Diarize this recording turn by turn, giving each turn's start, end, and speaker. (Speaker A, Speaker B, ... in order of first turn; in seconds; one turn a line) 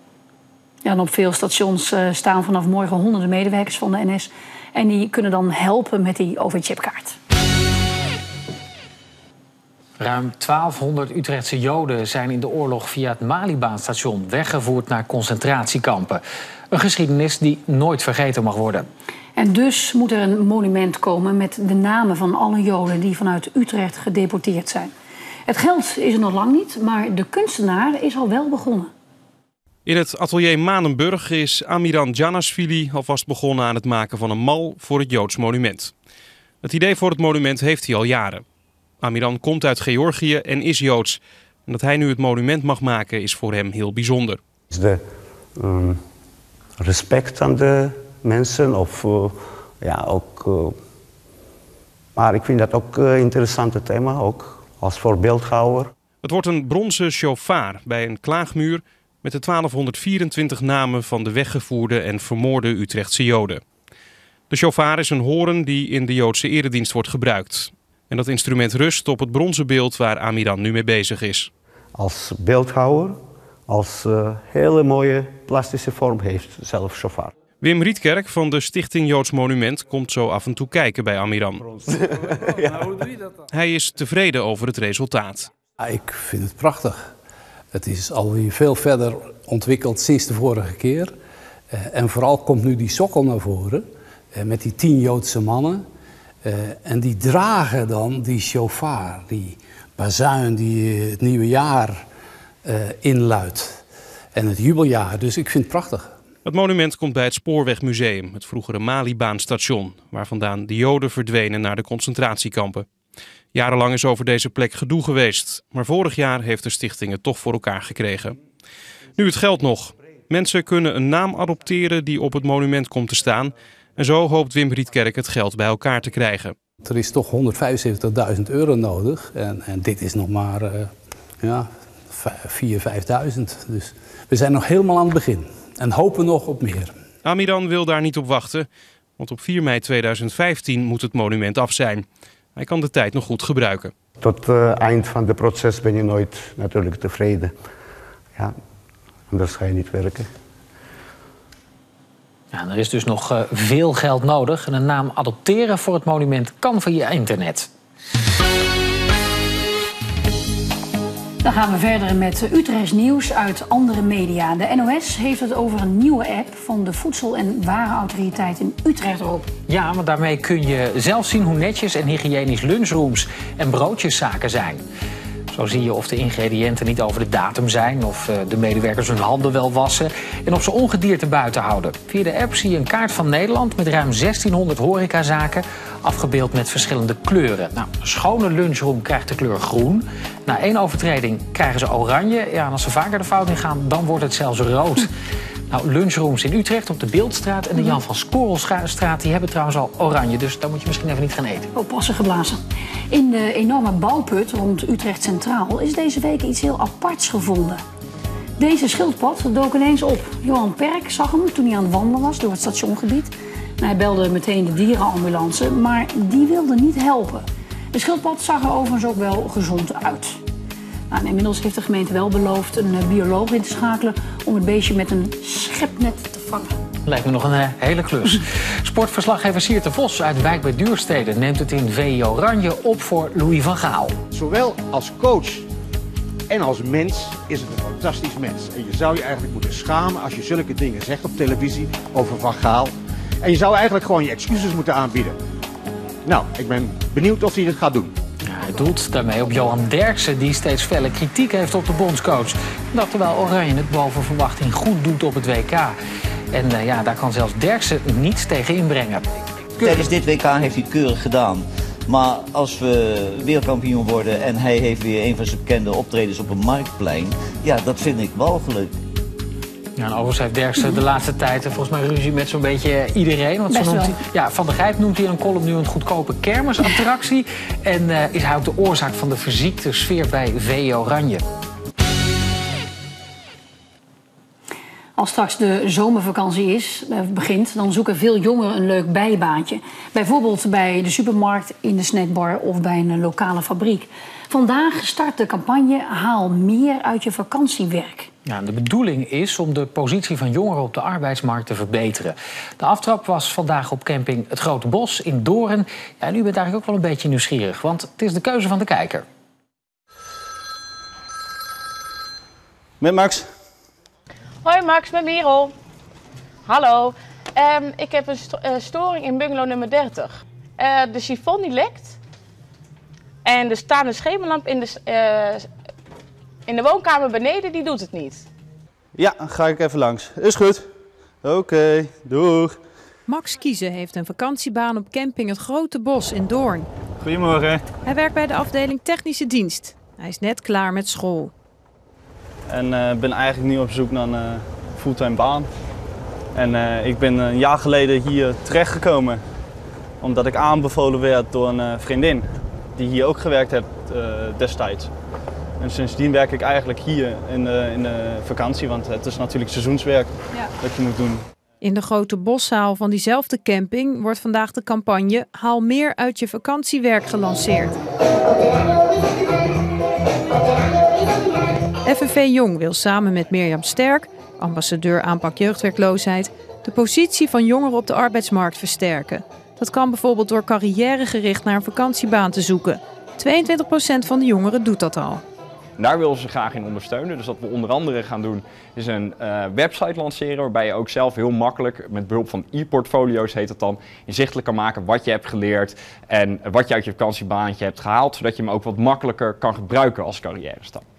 Speaker A: 0.8-7.2
Speaker B: 10.0-18.9
Speaker A: 19.4-24.9
Speaker A: 25.5-28.9
Speaker C: 29.9-35.9
Speaker C: 36.6-38.4
Speaker C: 39.0-44.4
Speaker D: 44.7-45.0
Speaker D: 45.6-46.0
Speaker D: 46.8-50.8
Speaker D: 52.2-55.9
Speaker C: 56.2-63.6
Speaker C: 64.5-71.5
Speaker D: 72.0-77.3
Speaker C: 77.6-81.6
Speaker D: 81.6-83.1
Speaker C: 83.5-85.5
Speaker E: 85.8-87.1
Speaker E: 87.7-91.2
Speaker E: 91.7-95.9
Speaker E: 96.4-102.1
Speaker E: 102.7-103.8
Speaker E: 104.3-106.2
Speaker C: 106.5-112.9
Speaker C: 113.5-118.4
Speaker C: 119.2-126.5
Speaker E: 126.8-137.0
Speaker C: 137.2-138.7
Speaker C: 139.2-142.1
Speaker C: 142.6-143.9
Speaker D: 144.2-147.6
Speaker D: 149.3-150.3
Speaker B: 152.5-157.7
Speaker A: 161.4-169.5
Speaker B: 169.7-174.8
Speaker B: 175.5-195.1
Speaker B: 195.7-201.7
Speaker A: 201.8-207.8
Speaker A: 208.6-220.4
Speaker A: 221.1-226.8
Speaker B: 227.1-234.2
Speaker F: 234.3-235.5
Speaker F: 236.6-241.7
Speaker F: 243.7-244.9
Speaker B: 248.4-256.0
Speaker B: 256.5-259.2
Speaker G: 259.8-268.9
Speaker B: 270.0-281.4
Speaker A: 273.7-274.2
Speaker A: 285.2-298.3
Speaker B: 298.5-309.3
Speaker H: 313.0-313.5
Speaker I: 314.6-315.7
Speaker I: 316.7-322.2
Speaker I: 323.4-325.7
Speaker I: 326.7-328.5
Speaker H: 329.2-330.9
Speaker H: 331.4-332.8
Speaker J: 333.3-336.9
Speaker H: 337.2-337.8
Speaker J: 338.0-341.5
Speaker H: 342.7-345.7
Speaker H: 346.6-349.4
Speaker H: 350.2-355.1
Speaker H: 355.8-361.4
Speaker J: 361.8-368.0
Speaker J: 372.1-385.4
Speaker K: 386.0-401.0